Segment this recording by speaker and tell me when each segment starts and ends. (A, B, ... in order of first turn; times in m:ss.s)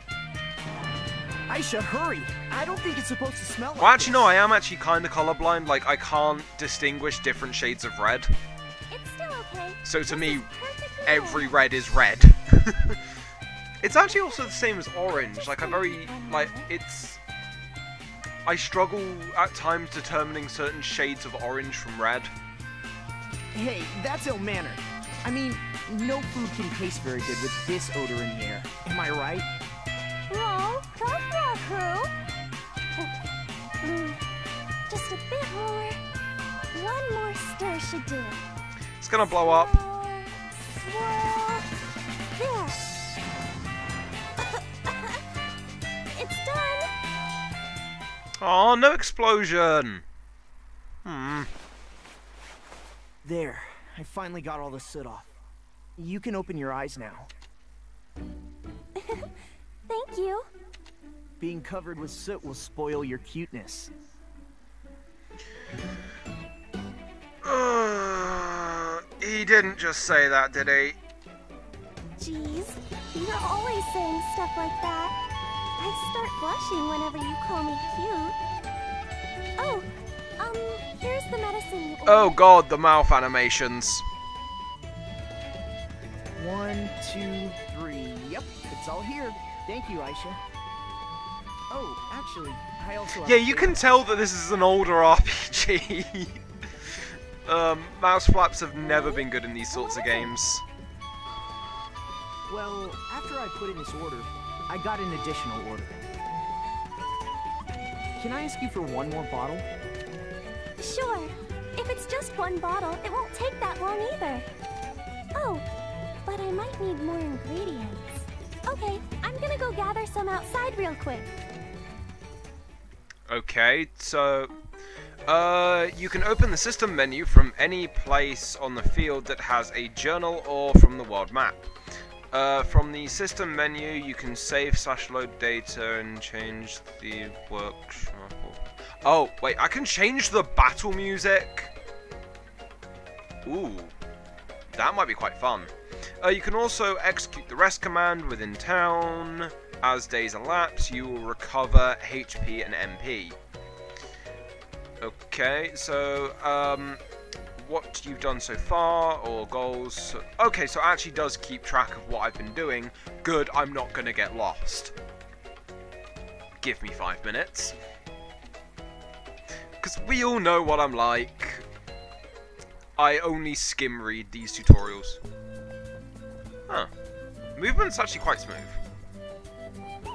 0:01.5-0:04.3 A
0:03.8-0:08.3 B
0:08.9-0:11.6 C
0:09.8-0:10.5 B
0:11.0-0:13.0 B
0:13.8-0:17.2 B
0:13.8-0:16.7 C
0:18.4-0:22.3 B
0:23.5-0:29.5 A
0:30.3-0:32.1 C
0:33.8-0:34.2 C
0:34.9-0:36.0 C
0:36.7-0:38.4 C
0:39.0-0:39.8 B
0:39.3-0:41.7 C
0:42.4-0:42.8 C
0:44.4-0:45.2 C
0:46.1-0:46.9 C
0:48.4-0:50.0 B
0:51.0-0:51.5 B
0:53.2-0:55.3 A
0:56.0-0:57.3 A
0:59.0-0:59.3 C
0:59.9-1:00.5 C
1:01.4-1:03.9 A
1:07.4-1:11.0 B
1:12.2-1:15.2 C
1:15.8-1:18.4 C
1:19.6-1:19.9 C
1:20.4-1:22.4 C
1:22.1-1:24.0 B
1:26.3-1:30.4 A
1:31.7-1:33.9 A
1:33.2-1:36.4 B
1:37.5-1:40.6 B
1:38.8-1:40.4 C
1:42.5-1:46.1 A
1:48.2-1:49.7 A
1:50.8-1:54.5 C
1:55.4-1:55.6 C
1:56.2-2:01.3 C
2:03.3-2:04.5 B
2:05.3-2:11.6 B
2:12.3-2:21.7 B
2:23.4-2:23.9 B
2:24.7-2:33.4 B
2:35.0-2:37.0 B
2:37.6-2:44.9 B
2:46.6-2:47.8 B
2:49.8-2:51.7 B
2:53.0-2:55.2 B
2:57.6-2:58.8 B